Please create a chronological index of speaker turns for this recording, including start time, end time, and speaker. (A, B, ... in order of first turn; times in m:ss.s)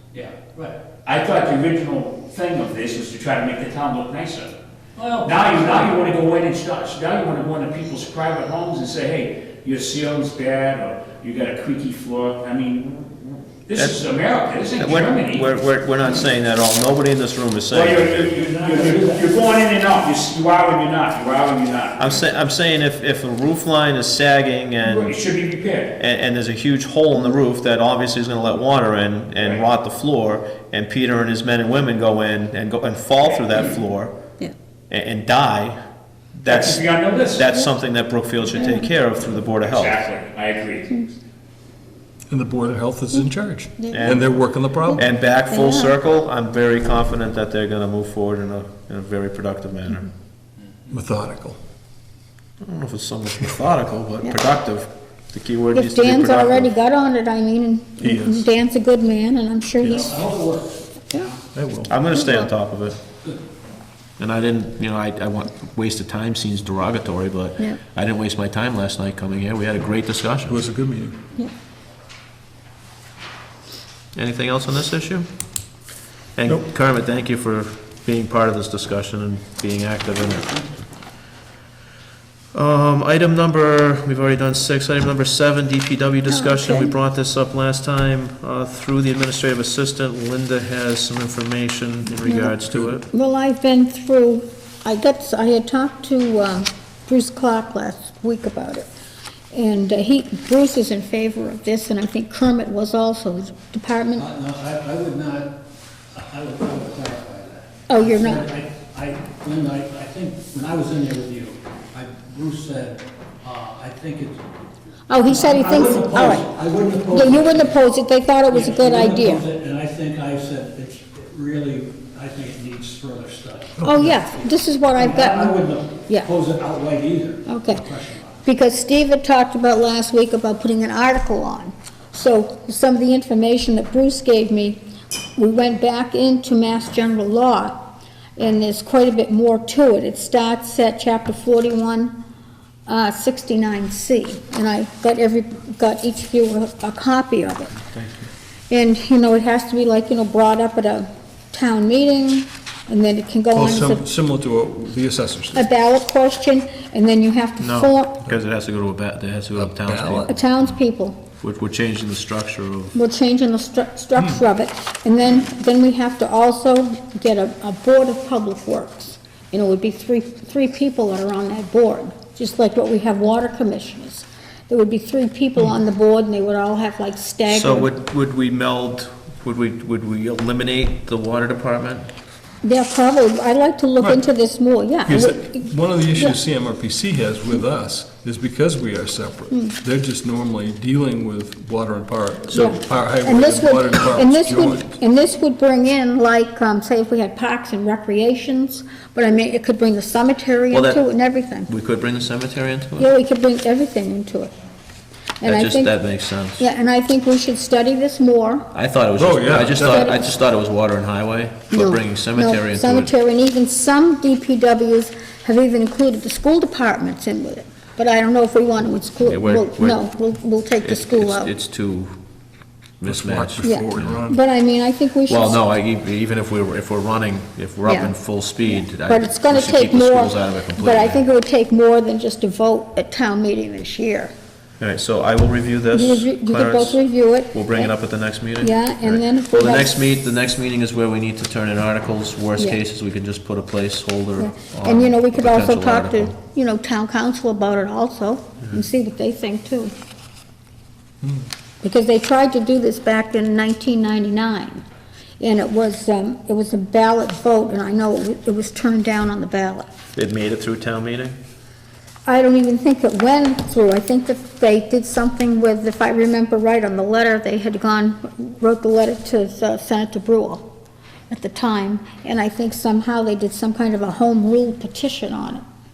0:00.1-0:00.8 A
0:01.0-0:04.5 B
0:05.0-0:06.0 A
0:05.2-0:15.5 B
0:14.8-0:18.3 C
0:17.7-0:22.2 B
0:18.2-0:19.3 A
0:22.0-0:25.2 C
0:24.8-0:26.0 B
0:26.0-0:34.2 C
0:34.9-0:35.8 C
0:36.4-0:36.8 C
0:36.4-0:37.6 B
0:37.3-0:40.0 C
0:38.5-0:38.9 D
0:39.6-0:41.0 B
0:42.3-0:45.0 E
0:43.8-0:44.2 D
0:43.9-0:44.2 C
0:44.9-0:45.9 D
0:45.0-0:50.1 C
0:50.9-0:51.6 E
0:52.6-0:56.7 C
0:55.7-1:00.1 D
0:58.0-0:58.4 C
0:59.8-1:01.4 A
1:01.5-1:02.0 E
1:01.9-1:03.0 C
1:02.1-1:02.5 D
1:04.2-1:10.6 C
1:10.5-1:11.2 E
1:14.1-1:15.3 C
1:16.4-1:20.6 C
1:22.5-1:33.0 C
1:26.3-1:26.9 D
1:32.2-1:32.6 D
1:33.1-1:38.9 D
1:39.5-1:44.2 D
1:44.2-1:45.6 A
1:46.1-1:54.4 A
1:47.9-1:48.5 D
1:55.1-1:56.4 D
1:55.2-1:57.8 A
1:57.1-1:59.5 D
1:58.5-2:08.4 A
2:03.8-2:04.2 E
2:03.8-2:06.3 D
2:07.5-2:07.8 D
2:08.4-2:14.8 D
2:15.4-2:22.2 D
2:22.8-2:27.8 D
2:27.8-2:28.3 C
2:28.7-2:34.0 D
2:33.5-2:35.7 E
2:35.5-2:38.2 D
2:37.6-2:40.7 C
2:39.6-2:40.3 E
2:40.3-2:41.2 D
2:41.4-2:42.9 C
2:42.9-2:57.9 D
2:44.2-2:44.4 E
2:57.5-3:02.1 C
3:02.6-3:06.4 D
3:04.0-3:04.2 E
3:05.1-3:15.0 E
3:09.5-3:09.8 D
3:12.5-3:21.7 D
3:20.7-3:21.0 C
3:21.7-3:23.1 C
3:23.0-3:24.5 D
3:25.4-3:25.9 D
3:25.4-3:26.6 C
3:26.6-3:28.7 D
3:28.7-3:33.1 C
3:29.2-3:30.1 E
3:29.8-3:30.3 D
3:31.7-3:41.5 D
3:39.2-3:40.0 C
3:40.8-3:42.1 C
3:43.0-3:44.2 C
3:43.0-3:44.4 E
3:43.6-3:45.6 D
3:45.2-3:51.2 C
3:47.8-3:48.1 D
3:48.7-3:54.3 D
3:54.8-4:06.3 C
3:55.9-3:57.9 D
3:58.6-3:59.9 D
4:04.4-4:09.9 D
4:11.2-4:11.5 E
4:11.8-4:14.8 D
4:15.4-4:19.9 D
4:20.1-4:21.4 C
4:22.2-4:30.7 D
4:31.3-4:35.6 D